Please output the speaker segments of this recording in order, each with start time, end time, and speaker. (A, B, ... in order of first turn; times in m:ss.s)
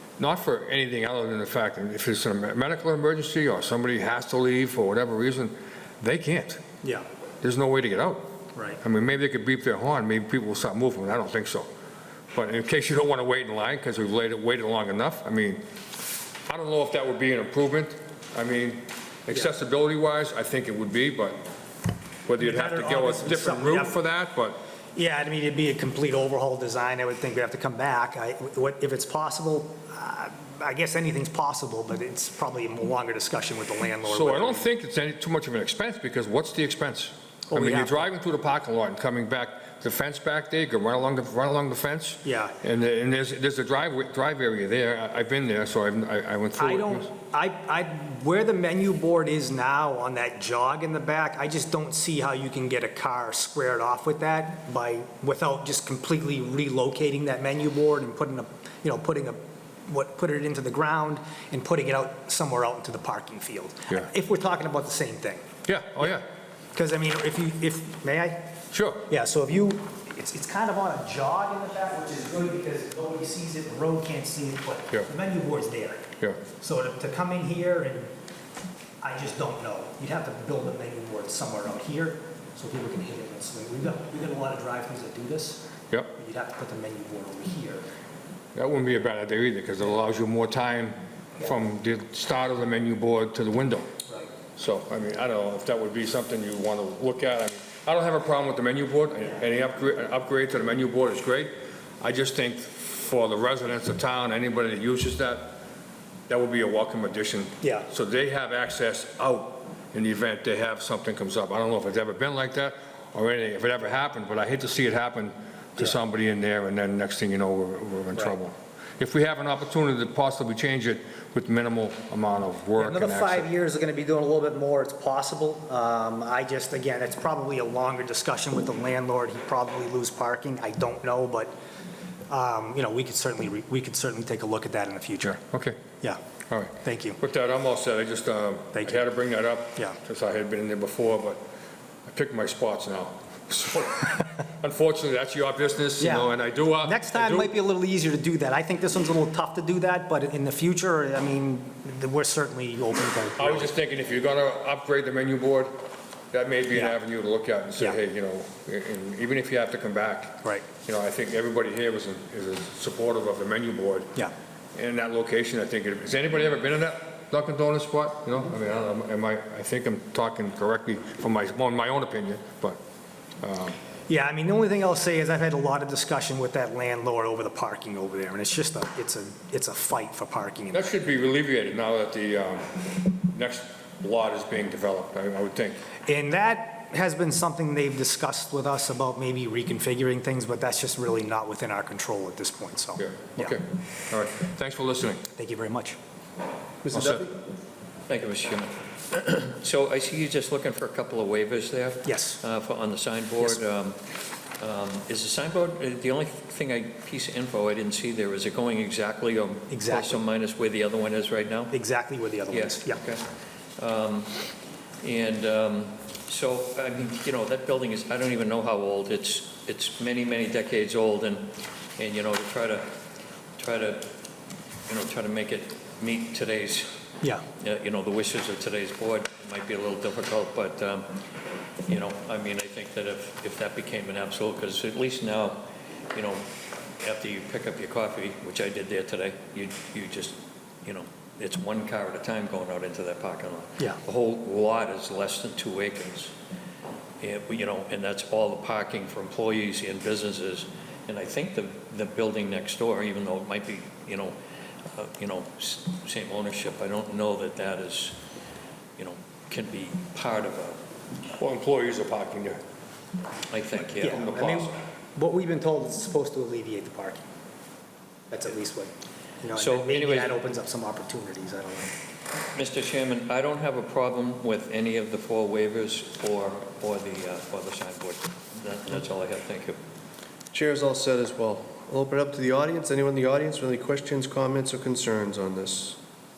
0:00.2-0:06.6 A
0:07.4-0:08.3 A
0:08.6-0:08.8 B
0:08.8-0:11.7 A
0:12.4-0:15.6 A
0:16.5-0:21.4 A
0:22.3-0:24.6 A
0:22.4-0:24.0 B
0:25.0-0:34.7 B
0:34.0-0:47.1 A
0:37.5-0:38.1 B
0:42.2-0:42.6 B
0:46.6-1:05.4 B
1:05.7-1:06.3 A
1:06.7-1:08.5 B
1:08.7-1:09.1 A
1:09.1-1:16.0 B
1:16.6-1:18.1 B
1:19.0-1:27.8 B
1:28.6-1:33.9 A
1:34.6-1:45.6 A
1:46.3-2:03.5 A
1:47.6-1:47.9 B
2:02.8-2:11.5 B
2:12.3-2:15.4 B
2:15.3-2:15.8 A
2:16.5-2:21.4 A
2:16.8-2:17.2 B
2:18.7-2:19.0 B
2:22.1-2:27.5 A
2:26.0-2:33.7 B
2:33.4-2:35.7 A
2:36.3-2:44.2 A
2:44.8-2:52.8 A
2:53.4-2:53.8 A
2:54.1-3:00.8 B
3:00.7-3:05.8 A
3:06.1-3:13.6 B
3:13.0-3:15.3 A
3:15.3-3:16.0 B
3:16.9-3:17.2 A
3:18.1-3:24.0 C
3:22.0-3:22.4 B
3:24.6-3:31.7 C
3:29.7-3:30.2 B
3:31.7-3:33.0 B
3:32.5-3:34.5 C
3:35.0-3:42.9 C
3:43.6-3:44.1 C
3:44.9-3:46.9 C
3:47.6-3:51.2 C
3:51.9-3:56.5 C
3:57.0-4:06.3 C
4:07.2-4:18.2 C
4:19.0-4:20.8 C
4:21.4-4:22.6 A
4:23.5-4:24.4 C
4:24.0-4:27.2 B
4:24.0-4:24.8 A
4:28.3-4:31.9 B
4:29.6-4:30.4 C
4:32.5-4:39.8 C
4:40.5-4:46.0 D